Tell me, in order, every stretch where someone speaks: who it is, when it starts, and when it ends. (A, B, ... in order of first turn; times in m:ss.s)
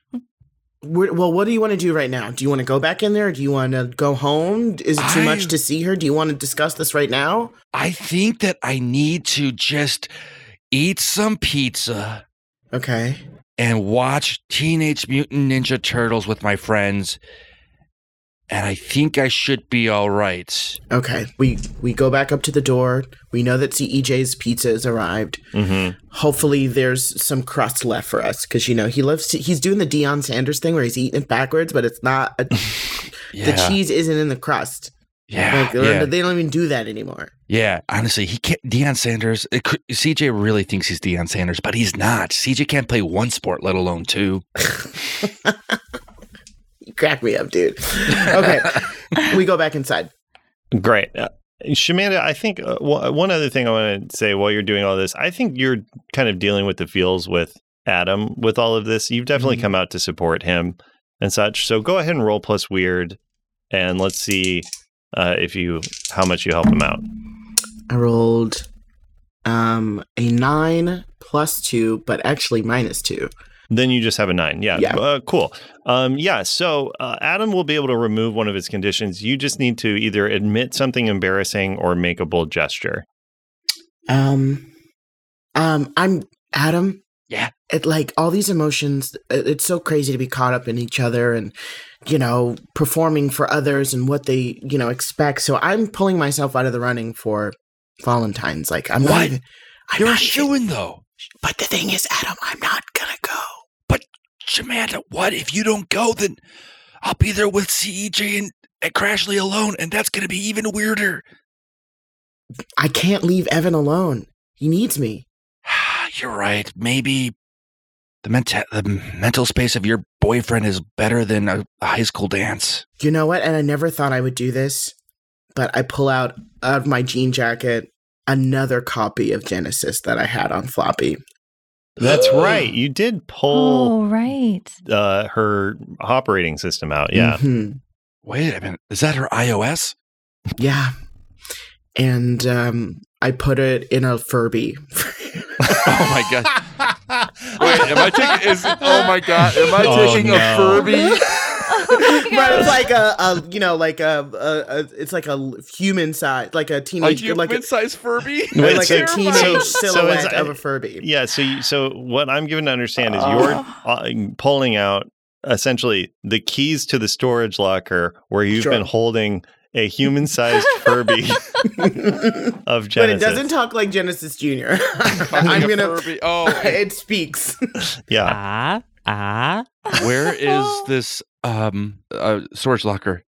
0:00.8-0:07.5 A
0:05.0-0:05.6 B
0:07.7-0:10.1 B
0:10.7-0:12.2 B
0:12.7-0:13.2 A
0:13.6-0:17.2 B
0:18.5-0:20.8 B
0:20.9-0:25.4 A
0:25.5-0:26.0 C
0:26.1-0:34.9 A
0:33.3-0:33.8 B
0:35.3-0:36.1 B
0:35.5-0:37.3 A
0:37.5-0:44.4 B
0:45.2-0:45.8 A
0:46.8-0:50.1 A
0:50.7-1:03.2 C
1:03.7-1:07.0 C
1:07.9-1:08.7 A
1:09.4-1:13.3 A
1:13.7-1:23.0 C
1:24.1-1:24.7 A
1:25.6-1:27.0 A
1:27.7-1:31.5 A
1:32.0-1:40.5 A
1:39.0-1:39.4 B
1:40.0-1:41.0 B
1:41.4-1:43.6 A
1:43.9-1:46.4 B
1:47.0-1:51.2 B
1:52.8-1:55.3 A
1:55.7-1:57.3 B
1:58.2-2:02.8 B
2:03.0-2:04.9 A
2:05.6-2:11.2 A
2:12.0-2:14.0 C
2:12.0-2:12.7 A
2:13.5-2:14.8 D
2:14.8-2:17.4 C
2:17.1-2:17.8 A
2:18.2-2:20.0 B
2:20.6-2:20.9 A
2:22.0-2:25.9 A
2:25.8-2:26.6 B
2:26.8-2:27.8 C
2:27.6-2:31.3 B
2:27.6-2:28.0 A
2:29.6-2:30.9 C
2:29.8-2:30.2 A
2:29.9-2:30.7 E
2:30.8-2:32.6 D
2:32.0-2:37.7 A
2:37.0-2:39.7 B
2:38.5-2:41.1 A
2:38.6-2:51.6 C
2:43.0-2:43.6 A
2:48.5-2:48.8 A
2:51.7-2:57.6 A
2:52.7-2:53.5 C
2:55.3-2:56.8 B
2:58.1-2:58.4 C
2:58.2-2:59.7 E
3:00.0-3:03.2 B